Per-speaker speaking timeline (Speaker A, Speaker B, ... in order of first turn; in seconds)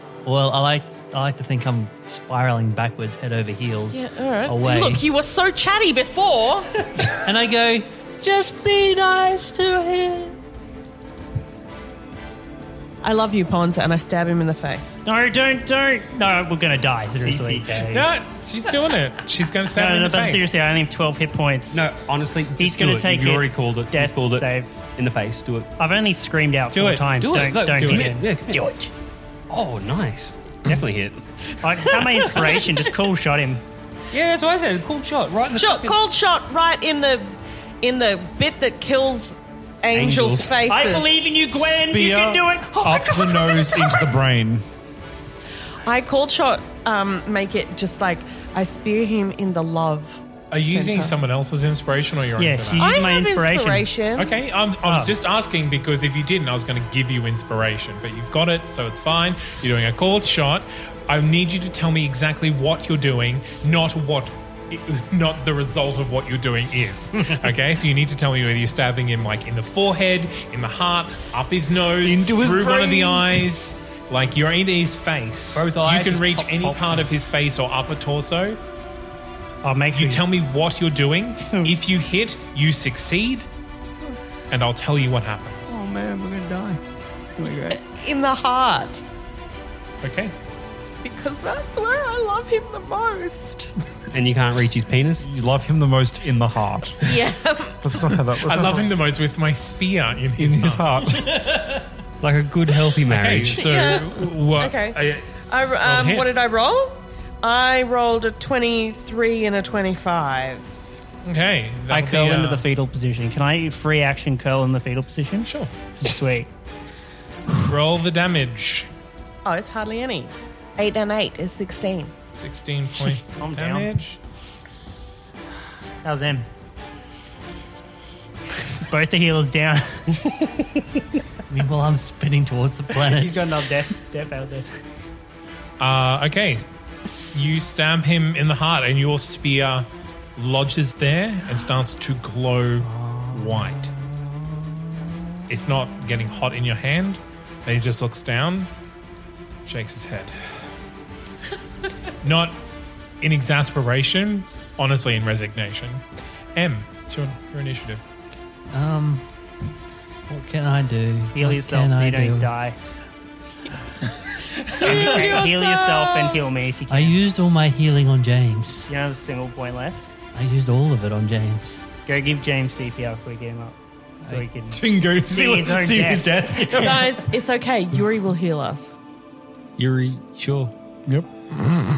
Speaker A: 0.2-5.0, 7.1-10.3, 131.5-133.4, 158.7-159.2, 160.3-162.5, 166.9-168.9, 170.3-171.8
Speaker B: 3.9-6.7, 13.0-15.0, 35.5-41.2, 45.8-51.1, 52.8-54.3, 87.7-89.0, 91.0-93.7, 97.0-98.2, 103.6-110.7, 119.4-122.1, 164.6-166.4, 176.7-178.9
Speaker C: 15.0-18.1, 19.7-21.9, 22.6-24.9, 25.8-28.8, 31.6-33.6, 40.6-43.8, 52.4-53.9, 54.8-55.1, 79.6-80.2, 86.1-86.6, 87.3-87.7, 111.9-116.5, 123.4-124.0, 126.0-126.5, 128.8-130.2, 133.1-134.8, 143.1-143.5, 161.3-162.8, 164.8-167.2, 168.9-170.1, 172.1-177.0
Speaker D: 17.8-20.6, 26.7-27.1, 50.5-52.9, 54.1-78.6, 79.9-83.5, 84.5-85.8, 90.0-90.3, 98.4-100.9, 103.1-105.2, 105.8-106.3, 111.2-112.6, 115.4-115.7, 117.6-118.9, 122.3-124.2, 135.8-136.6, 137.3-143.9, 145.5-148.7, 149.7-150.6, 152.2-152.6, 153.2-156.0, 156.5-158.0
Speaker E: 21.7-25.7, 27.1-28.7, 29.5-32.8, 34.1-36.0, 39.9-40.7, 75.5-77.0, 94.1-95.3, 102.2-103.7, 179.8-180.7
Speaker F: 41.5-44.6, 72.0-73.5, 95.2-97.2, 97.8-98.9, 100.4-101.4, 174.7-177.3